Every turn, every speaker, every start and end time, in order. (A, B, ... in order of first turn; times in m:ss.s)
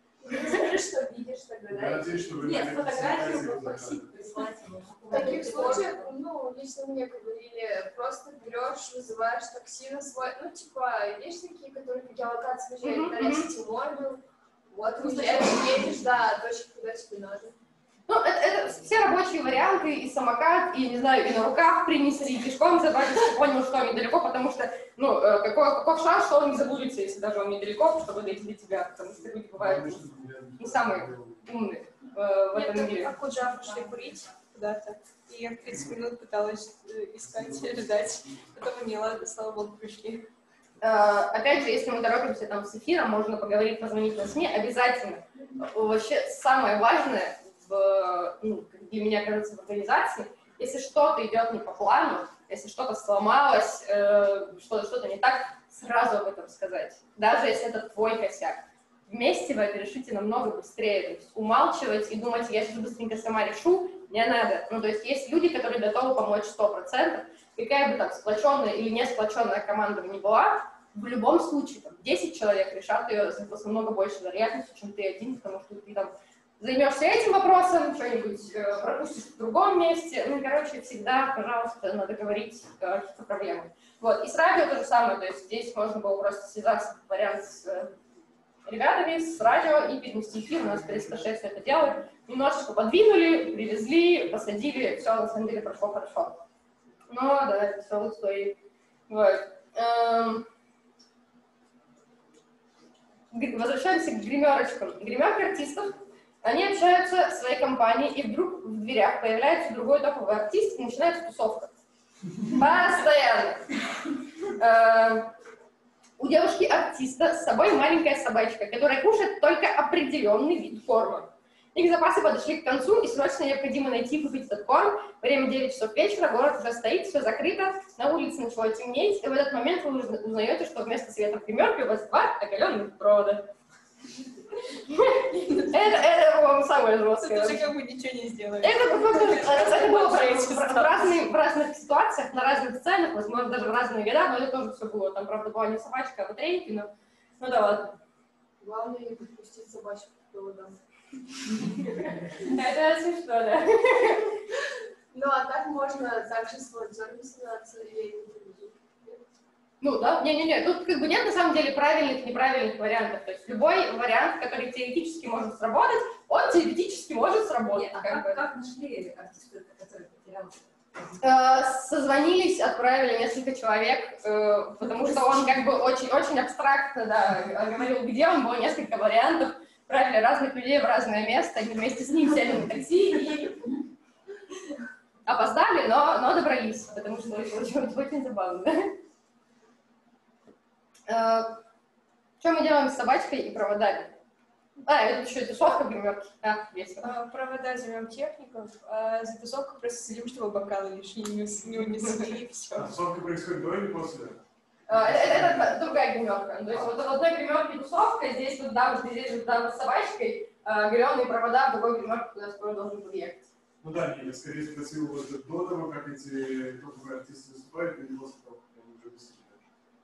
0:00.2-0:03.8 A
0:01.7-0:04.1 B
0:02.4-0:06.1 C
0:05.1-0:17.5 A
0:12.8-0:13.5 D
0:15.0-0:15.5 D
0:18.1-0:30.1 D
0:29.6-0:31.5 B
0:30.6-0:33.2 D
0:32.5-0:40.2 E
0:37.4-0:37.7 B
0:40.8-1:27.9 D
1:28.7-1:36.4 D
1:37.1-1:38.6 D
1:39.1-1:40.5 D
1:43.3-1:51.7 D
1:52.4-1:53.6 D
1:54.6-1:55.3 D
1:56.2-2:13.5 D
2:14.9-2:17.7 D
2:17.2-2:21.1 E
2:18.6-2:28.0 D
2:28.6-2:30.8 A
2:32.2-2:34.3 D
2:35.1-2:39.2 A
2:39.8-2:48.4 D
2:47.7-2:51.2 C
2:51.2-3:03.6 D
3:05.2-3:09.0 D
3:11.1-3:11.6 D
3:12.4-3:14.1 D
3:14.8-3:17.1 D
3:17.0-3:22.9 E
3:22.0-3:22.4 D
3:22.7-3:25.8 B
3:24.9-3:33.5 D
3:33.8-3:39.6 B